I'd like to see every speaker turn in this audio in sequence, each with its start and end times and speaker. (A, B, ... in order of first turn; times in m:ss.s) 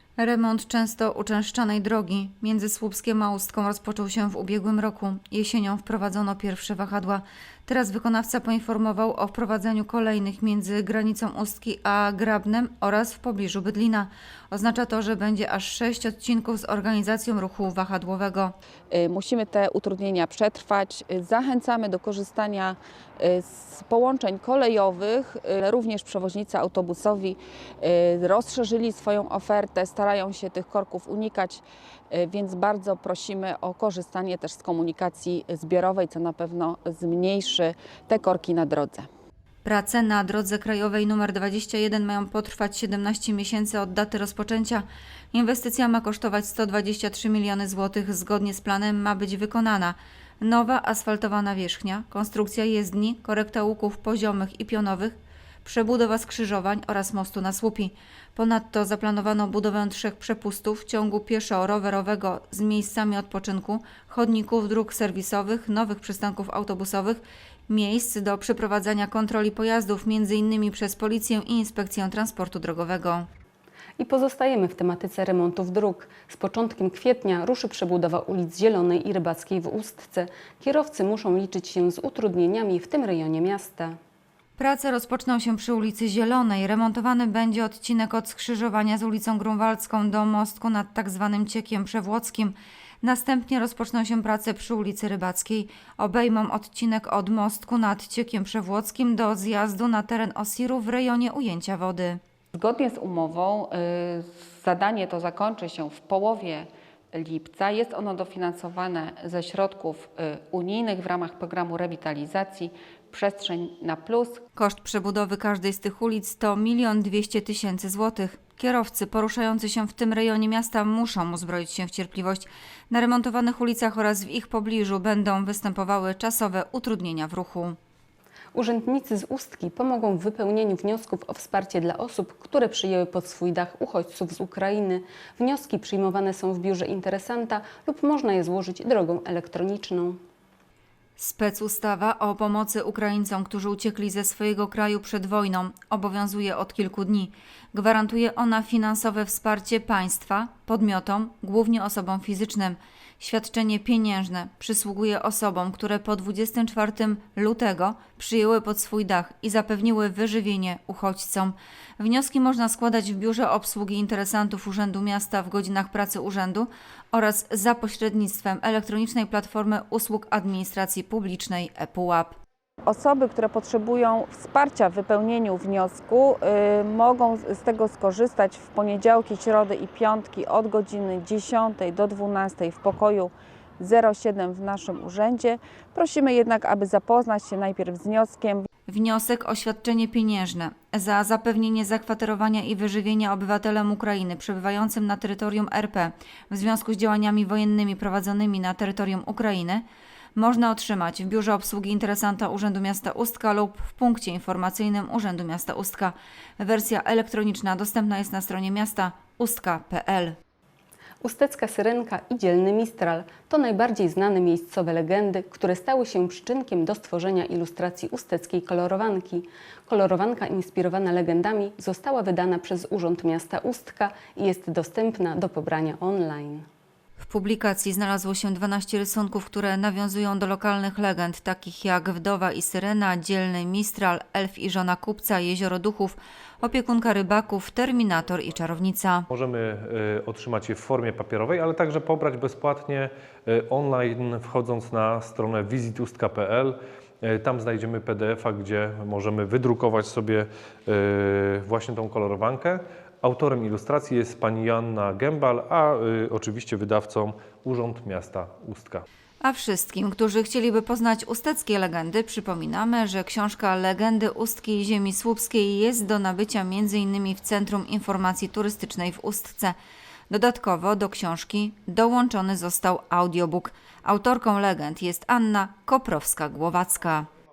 0:00.2-0:18.5 A
0:18.9-0:39.1 B
0:39.6-1:13.2 A
1:14.0-1:24.0 C
1:24.6-1:42.2 A
1:42.5-1:54.4 B
1:54.5-2:07.8 A
2:08.5-2:20.2 C
2:21.2-2:52.4 A
2:52.8-3:08.7 B
3:08.9-3:19.8 A
3:20.4-3:30.4 A
3:31.2-3:46.6 C
3:47.2-3:59.2 A
3:59.3-4:19.0 D
4:19.4-4:29.7 A
4:30.3-4:37.3 A